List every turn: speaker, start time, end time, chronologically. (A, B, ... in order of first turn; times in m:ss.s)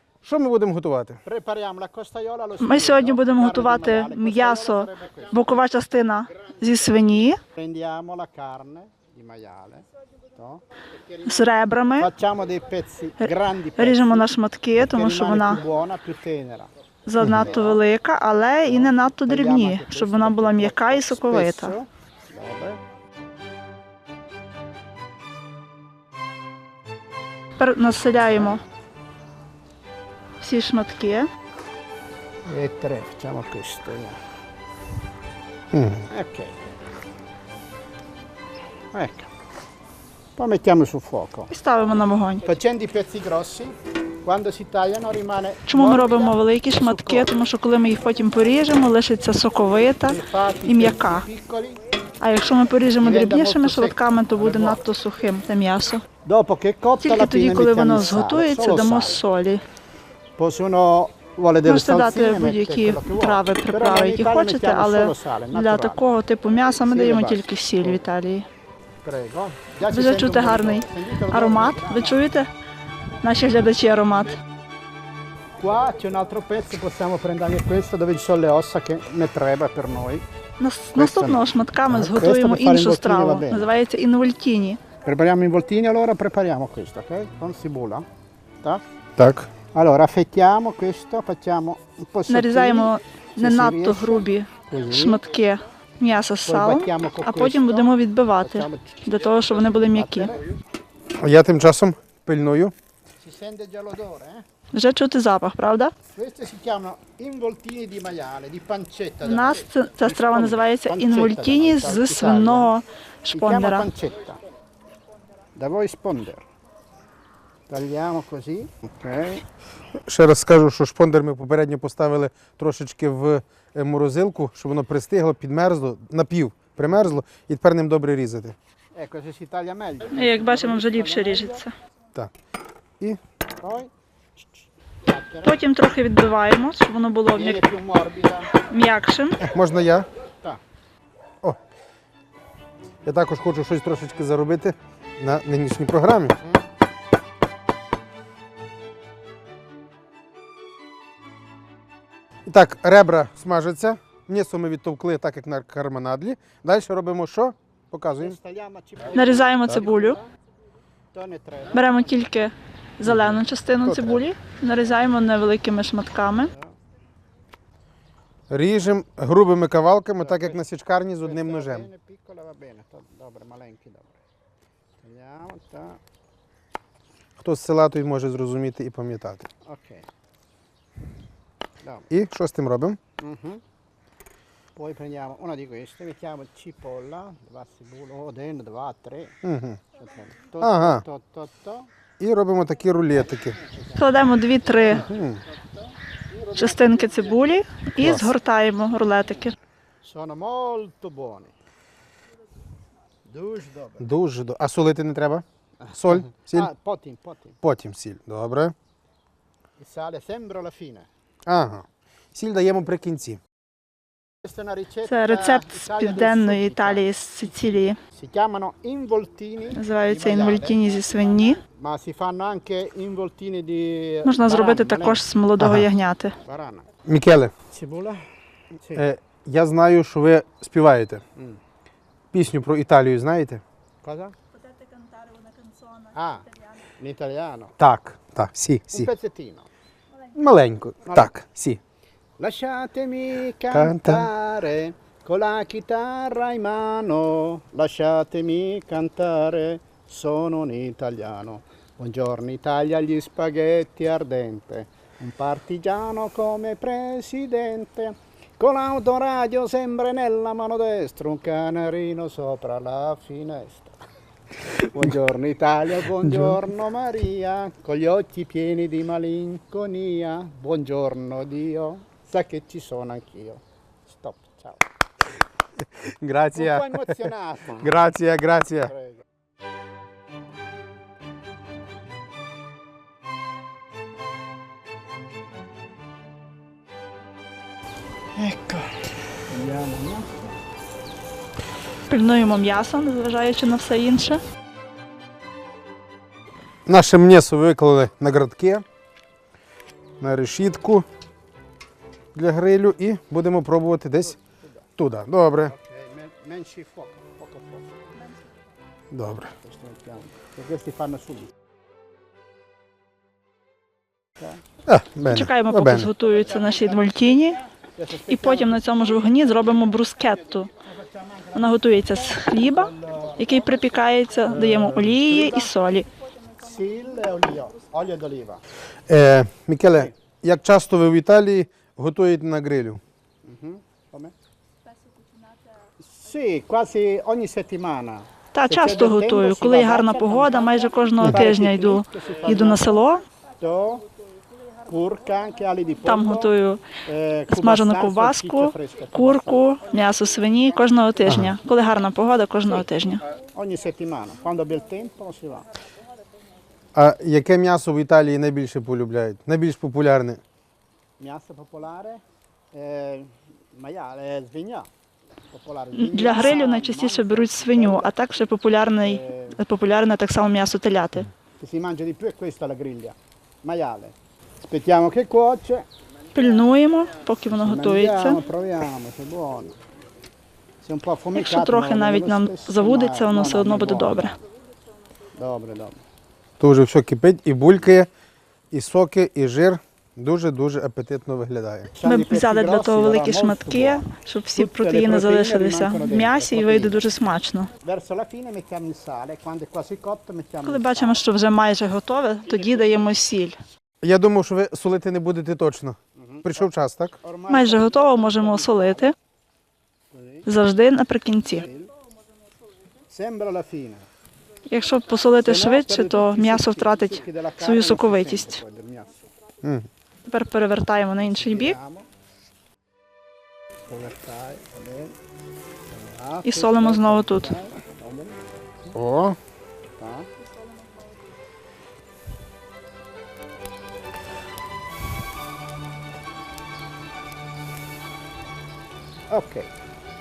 0:00.2-0:01.2 A
0:01.2-0:05.4 B
0:02.6-0:07.4 C
0:07.5-0:10.6 B
0:11.2-0:12.1 C
0:12.0-0:14.3 B
0:13.2-0:15.6 C
0:14.9-0:16.7 B
0:17.1-0:21.7 C
0:17.2-0:17.8 B
0:17.2-0:17.5 A
0:18.6-0:22.8 B
0:27.6-0:28.6 C
0:30.4-0:31.3 C
0:32.4-0:34.2 B
0:35.7-0:36.0 A
0:36.1-0:36.5 B
0:38.9-0:39.3 B
0:40.4-0:41.5 B
0:41.5-0:42.4 C
0:42.4-0:47.3 B
0:45.7-0:51.2 C
0:50.0-0:51.8 B
0:52.2-0:56.0 C
0:53.0-0:54.8 B
0:56.2-0:59.2 B
0:57.0-0:59.6 C
1:00.4-1:06.0 B
1:01.6-1:08.4 C
1:06.8-1:08.0 B
1:09.0-1:12.2 B
1:09.9-1:12.5 C
1:13.2-1:14.4 C
1:15.6-1:20.2 B
1:20.6-1:24.8 C
1:21.0-1:23.7 B
1:25.0-1:28.0 B
1:29.2-1:29.5 A
1:29.7-1:35.2 B
1:32.3-1:40.3 C
1:36.4-1:39.0 B
1:39.9-1:40.5 B
1:41.2-1:42.7 A
1:43.2-1:44.4 B
1:44.7-1:45.9 C
1:46.1-1:52.7 B
1:49.2-1:53.9 C
1:53.3-1:54.4 B
1:55.6-1:56.4 B
1:57.7-1:59.4 B
2:00.1-2:08.6 A
2:09.0-2:11.6 B
2:10.1-2:11.7 C
2:13.6-2:15.6 B
2:15.4-2:17.7 C
2:17.3-2:18.5 B
2:18.6-2:19.4 C
2:19.4-2:20.1 A
2:23.0-2:26.4 A
2:32.4-2:38.4 A
2:38.2-2:40.2 B
2:39.1-2:40.2 C
2:41.1-2:41.9 B
2:41.7-2:46.5 C
2:43.0-2:44.3 A
2:46.5-2:46.8 B
2:48.5-2:51.9 A
2:50.2-2:50.6 B
2:51.2-2:54.2 B
2:55.0-2:56.0 B
2:57.4-2:59.5 A
2:59.6-3:00.0 B
3:01.8-3:02.1 B
3:02.1-3:03.0 A
3:03.2-3:03.6 B
3:04.8-3:09.4 B
3:09.4-3:09.8 A
3:10.0-3:11.9 B
3:10.6-3:11.0 A
3:12.2-3:13.6 A
3:13.9-3:15.1 C
3:15.0-3:15.4 A
3:16.5-3:19.5 C
3:16.6-3:17.0 B
3:18.0-3:18.3 A
3:20.0-3:21.5 B
3:23.2-3:24.1 B
3:24.0-3:26.7 A
3:25.8-3:27.6 B
3:27.6-3:28.7 A
3:29.8-3:31.1 B
3:31.5-3:33.4 A
3:34.4-3:37.1 B
3:35.1-3:38.0 C
3:38.1-3:45.2 B
3:39.7-3:41.6 C
3:44.2-3:46.3 C
3:45.6-3:45.9 A
3:46.4-3:46.9 B
3:47.0-3:47.5 A
3:47.7-3:48.2 B
3:48.8-3:49.0 B
3:48.9-3:51.2 A
3:52.3-3:53.6 A
3:54.0-3:54.3 B
3:56.1-3:57.8 B
3:57.8-3:59.1 A
3:58.9-3:59.7 B
4:00.3-4:01.8 A
4:01.0-4:01.3 B
4:02.4-4:24.0 B
4:03.7-4:04.3 A
4:24.7-4:34.8 B
4:35.8-4:38.9 A
4:36.5-4:38.0 B
4:38.8-4:39.2 B
4:48.4-4:50.5 B
4:52.1-4:54.4 C
4:56.9-4:58.8 A
5:00.2-5:01.0 A
5:02.3-5:04.4 A
5:04.2-5:04.9 B
5:05.0-5:05.7 A
5:05.7-5:07.9 B
5:09.1-5:09.5 A
5:09.6-5:11.5 B
5:14.8-5:16.1 A
5:15.3-5:17.6 C
5:16.3-5:18.8 B
5:18.3-5:20.7 C
5:20.8-5:23.8 B
5:21.5-5:26.1 C
5:24.5-5:25.7 B
5:26.6-5:28.6 B
5:29.1-5:33.0 A
5:33.4-5:34.3 B
5:36.0-5:43.0 B
5:38.5-5:43.2 C
5:41.2-5:41.4 A
5:43.6-5:44.0 B
5:44.8-5:46.5 B
5:46.0-5:46.8 C
5:47.0-5:49.7 B
5:47.5-5:53.2 C
5:51.2-5:51.6 A
5:53.5-5:55.6 B
5:56.9-6:00.4 A
6:01.2-6:02.2 B
6:02.7-6:04.9 B
6:05.5-6:08.1 B
6:05.9-6:11.3 C
6:09.0-6:09.6 B
6:11.6-6:15.9 B
6:16.3-6:18.4 C
6:17.5-6:19.7 B
6:20.8-6:24.4 B
6:21.3-6:24.4 C
6:25.3-6:26.0 B
6:26.6-6:28.1 A
6:28.7-6:31.9 A
6:31.9-6:37.0 B
6:32.0-6:37.7 C
6:37.8-6:41.2 B
6:40.6-6:43.6 C
6:42.5-6:43.1 B
6:44.0-6:47.2 A
6:46.2-6:49.1 B
6:47.5-6:49.1 C
6:50.1-6:50.5 B
6:50.4-6:51.7 C
6:51.5-6:51.9 B
6:53.1-6:54.0 B
6:54.7-6:58.6 C
6:55.4-6:59.2 B
6:59.6-6:59.9 A
7:00.2-7:01.8 C
7:01.2-7:02.1 B
7:03.9-7:05.1 B
7:05.9-7:09.0 B
7:06.4-7:07.5 C
7:08.9-7:09.4 A
7:10.0-7:10.3 B
7:19.3-7:19.7 B